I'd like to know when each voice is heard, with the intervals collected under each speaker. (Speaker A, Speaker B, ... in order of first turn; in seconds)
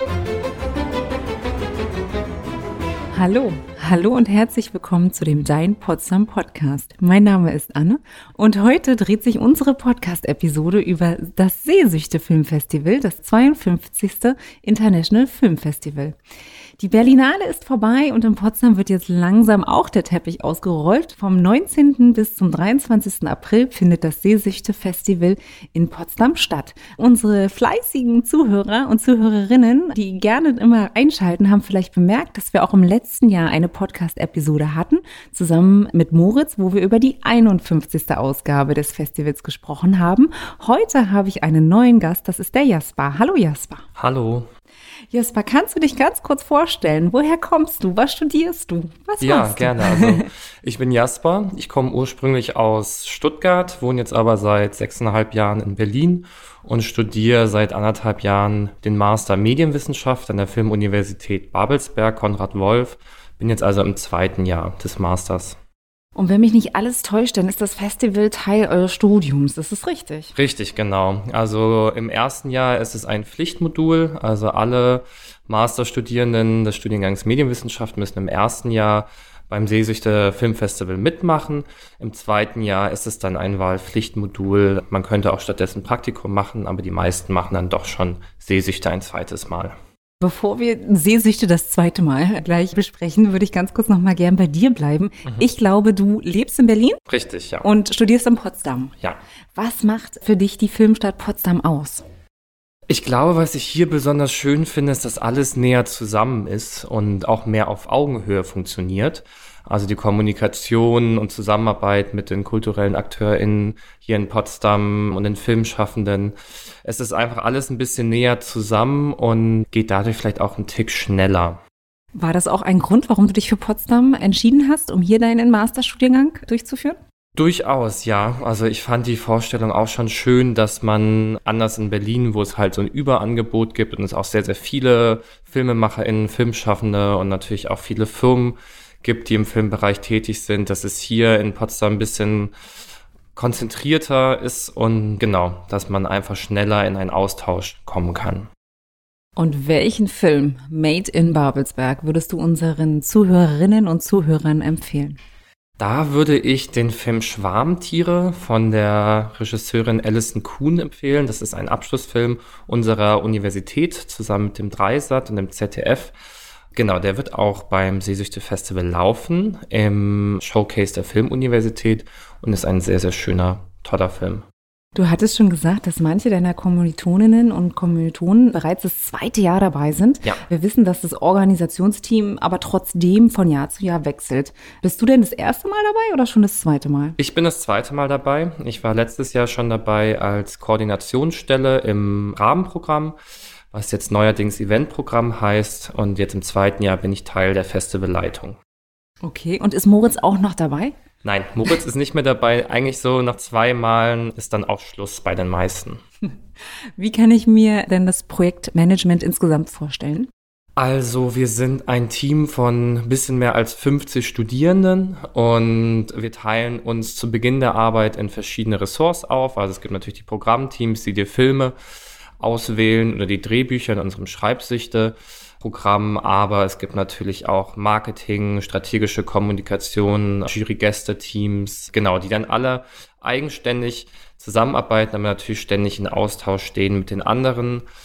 Speaker A: 3.1-16.2, 16.8-43.8, 45.1-50.3, 66.2-70.3, 90.2-97.0, 97.6-99.0, 99.6-102.1, 122.2-127.0, 149.4-155.2, 174.9-187.2, 199.2-200.9, 207.0-210.3
Speaker B: 44.0-44.5, 49.2-65.6, 70.3-89.8, 97.1-97.7, 102.9-121.6, 127.4-142.5, 143.3-148.5, 155.8-166.2, 166.7-174.4, 187.2-193.2, 193.7-198.6, 201.2-206.0, 210.8-221.8, 222.4-237.9